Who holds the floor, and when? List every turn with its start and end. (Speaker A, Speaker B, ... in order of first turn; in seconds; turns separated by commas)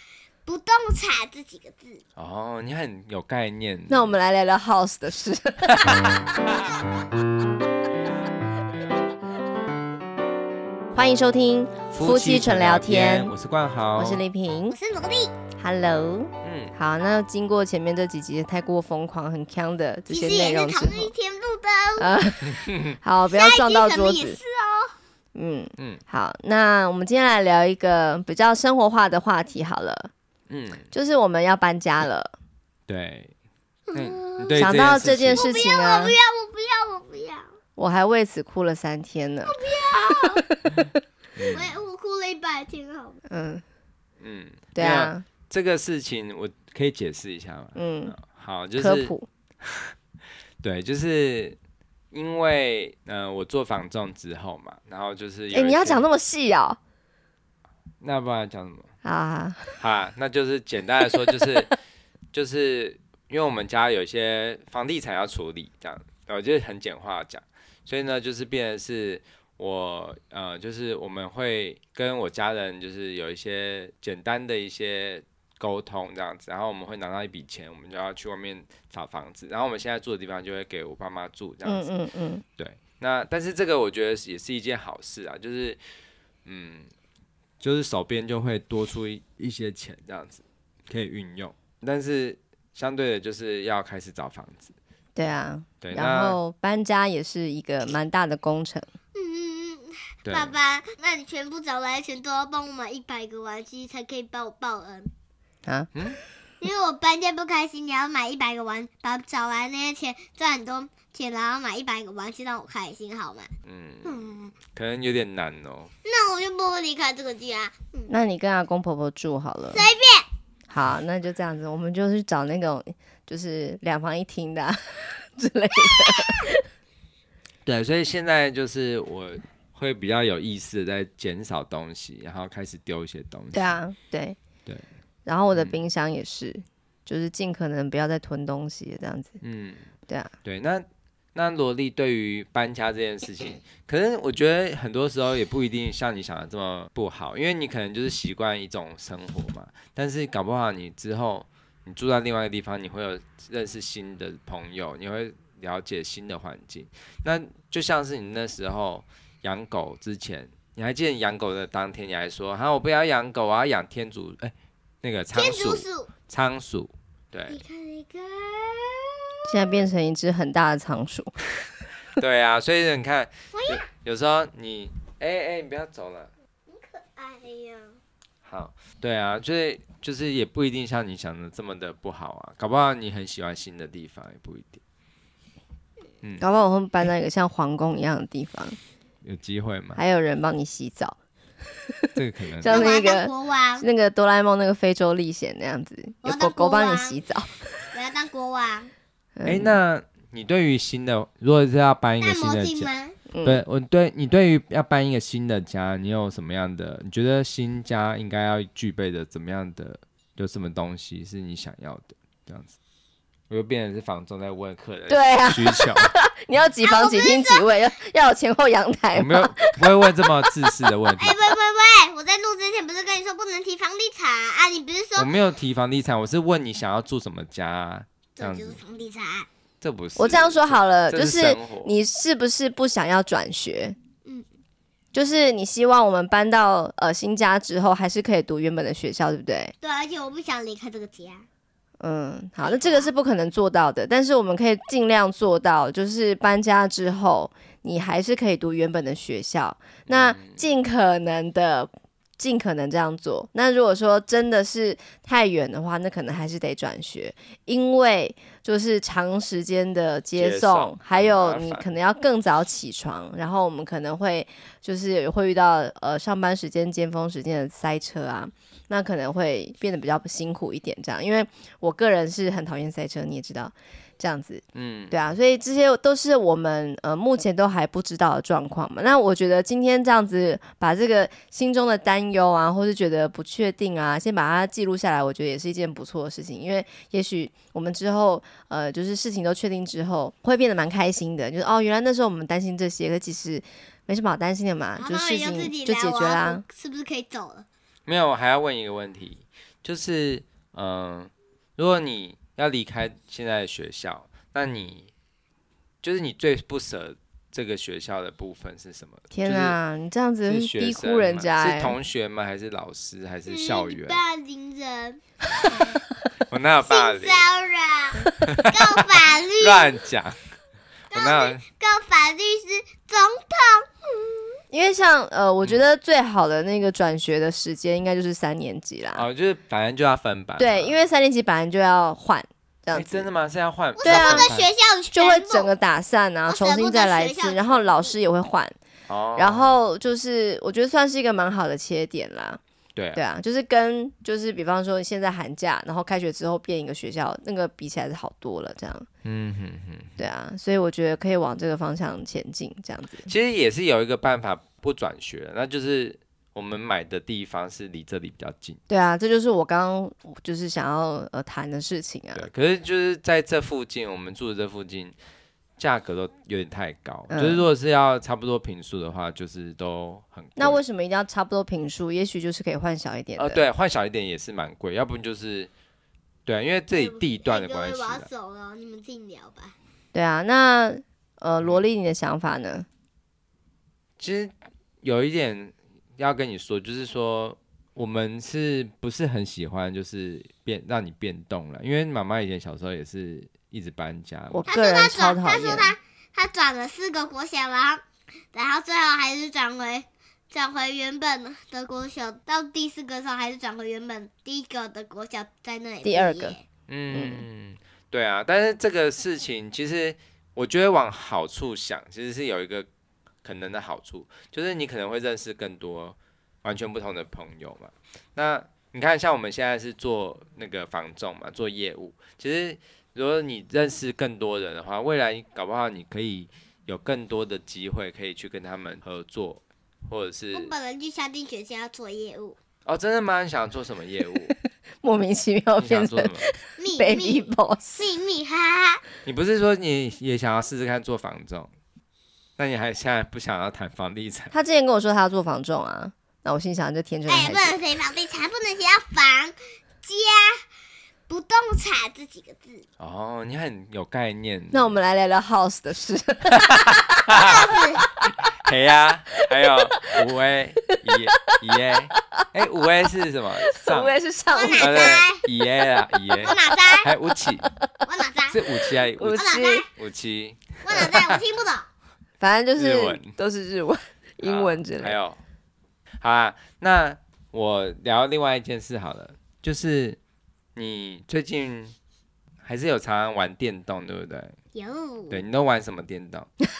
Speaker A: 0.5-2.0, Speaker B: 2.2-4.1, Speaker C: 3.9-6.3, Speaker C: 10.9-13.3, Speaker B: 11.9-14.2, Speaker C: 13.9-14.8, Speaker A: 14.7-15.3, Speaker C: 15.6-21.1, Speaker B: 16.4-16.7, Speaker A: 20.1-22.1, Speaker C: 22.0-24.4, Speaker B: 22.5-23.0, Speaker A: 23.3-24.9, Speaker C: 25.4-30.1, Speaker B: 30.5-30.9, Speaker C: 30.9-32.4, Speaker B: 32.9-33.3, Speaker A: 33.9-34.6, Speaker B: 34.0-35.5, Speaker C: 34.5-36.2, Speaker A: 35.3-37.5, Speaker C: 37.8-41.0, Speaker A: 39.4-40.4, Speaker B: 41.4-41.8, Speaker A: 41.5-43.2, Speaker C: 43.3-43.6, Speaker B: 44.2-49.9, Speaker C: 44.8-45.2, Speaker C: 47.8-48.1, Speaker C: 48.8-49.3, Speaker B: 50.6-51.6, Speaker B: 52.1-56.1, Speaker C: 55.5-56.8, Speaker B: 58.0-58.9, Speaker C: 59.0-59.8, Speaker B: 59.8-61.7, Speaker B: 62.3-81.9, Speaker C: 81.6-82.4, Speaker B: 82.6-85.8, Speaker B: 86.5-86.9, Speaker B: 87.6-94.7, Speaker C: 95.2-98.9, Speaker B: 95.8-96.4, Speaker A: 99.2-105.1, Speaker B: 100.2-100.5, Speaker C: 105.7-105.9, Speaker B: 105.9-106.2, Speaker A: 106.6-113.5, Speaker B: 113.7-115.9, Speaker A: 114.0-114.5, Speaker A: 116.0-118.1, Speaker C: 118.1-119.9, Speaker A: 119.7-120.3, Speaker C: 120.7-126.6, Speaker B: 127.7-133.8, Speaker C: 133.5-134.4, Speaker C: 135.3-139.4, Speaker B: 139.4-139.9, Speaker B: 140.4-167.6, Speaker A: 165.3-166.1, Speaker A: 167.5-169.1, Speaker C: 169.5-171.4, Speaker B: 172.2-176.3, Speaker A: 173.5-173.9, Speaker A: 176.7-178.0, Speaker B: 178.4-184.8, Speaker C: 186.4-188.8, Speaker B: 189.2-190.0, Speaker C: 189.9-191.2, Speaker B: 192.2-192.9, Speaker C: 192.6-197.9, Speaker A: 192.7-193.8, Speaker A: 196.2-197.2, Speaker A: 197.9-198.9, Speaker C: 199.4-199.8, Speaker B: 199.4-202.9, Speaker A: 202.2-203.2, Speaker C: 203.3-203.6, Speaker B: 203.4-212.7, Speaker B: 213.5-216.1, Speaker C: 215.1-220.5, Speaker A: 216.8-217.7, Speaker B: 219.1-221.4, Speaker A: 221.2-225.3, Speaker B: 225.2-228.8, Speaker A: 228.4-229.5, Speaker B: 229.8-232.0, Speaker C: 230.2-234.0, Speaker C: 235.1-239.7, Speaker A: 239.8-241.5, Speaker C: 242.0-296.6, Speaker A: 242.6-243.1, Speaker B: 250.1-250.7, Speaker B: 260.4-261.9, Speaker B: 274.7-275.2, Speaker A: 295.0-297.7, Speaker B: 298.1-305.1, Speaker B: 306.0-309.8, Speaker C: 309.3-312.0, Speaker B: 310.5-314.2, Speaker A: 313.5-315.2, Speaker B: 316.5-317.5, Speaker A: 316.8-320.0, Speaker B: 318.5-318.8, Speaker B: 319.6-320.4, Speaker A: 321.1-324.5, Speaker B: 321.1-321.6, Speaker C: 324.7-329.3, Speaker B: 329.1-331.0, Speaker C: 330.6-333.3, Speaker B: 332.9-334.7, Speaker A: 334.0-335.7, Speaker C: 334.0-334.5, Speaker C: 335.1-338.8, Speaker A: 336.5-338.1, Speaker B: 339.1-339.8, Speaker C: 339.4-342.6, Speaker B: 342.9-343.2, Speaker C: 343.1-349.1, Speaker B: 349.2-350.2, Speaker C: 350.2-353.3, Speaker B: 353.2-358.8, Speaker C: 358.9-362.5, Speaker B: 362.3-365.2, Speaker B: 365.8-370.8, Speaker C: 367.3-367.7, Speaker C: 370.6-373.6, Speaker B: 373.4-375.7, Speaker B: 376.5-378.3, Speaker A: 376.9-379.7, Speaker C: 380.1-382.9, Speaker B: 384.2-394.7, Speaker C: 394.5-395.9, Speaker A: 394.7-398.0, Speaker A: 398.5-406.6, Speaker C: 406.0-406.6, Speaker B: 406.9-412.9, Speaker C: 407.1-407.4, Speaker B: 413.4-430.7, Speaker A: 430.5-432.6, Speaker B: 432.9-434.5, Speaker C: 435.0-438.1, Speaker B: 435.8-436.5, Speaker A: 436.8-439.0, Speaker B: 439.2-441.7, Speaker B: 442.6-444.5, Speaker C: 444.5-447.8, Speaker A: 447.3-450.6, Speaker A: 451.3-452.8, Speaker B: 453.0-455.0, Speaker C: 454.7-457.5, Speaker B: 457.3-457.6, Speaker A: 457.4-458.0, Speaker B: 458.6-464.2, Speaker C: 459.7-460.1, Speaker C: 460.9-461.6, Speaker C: 462.2-462.4, Speaker C: 463.7-466.5, Speaker A: 464.5-465.4, Speaker B: 464.8-467.7, Speaker A: 466.4-467.1, Speaker A: 468.1-468.6, Speaker B: 468.5-471.4, Speaker C: 469.1-469.8, Speaker A: 469.3-469.9, Speaker A: 470.8-471.9, Speaker C: 472.4-475.2, Speaker B: 472.8-473.4, Speaker B: 474.4-475.4, Speaker B: 476.2-480.2, Speaker B: 480.8-481.9, Speaker B: 482.6-484.6, Speaker A: 484.7-485.4, Speaker B: 485.3-486.5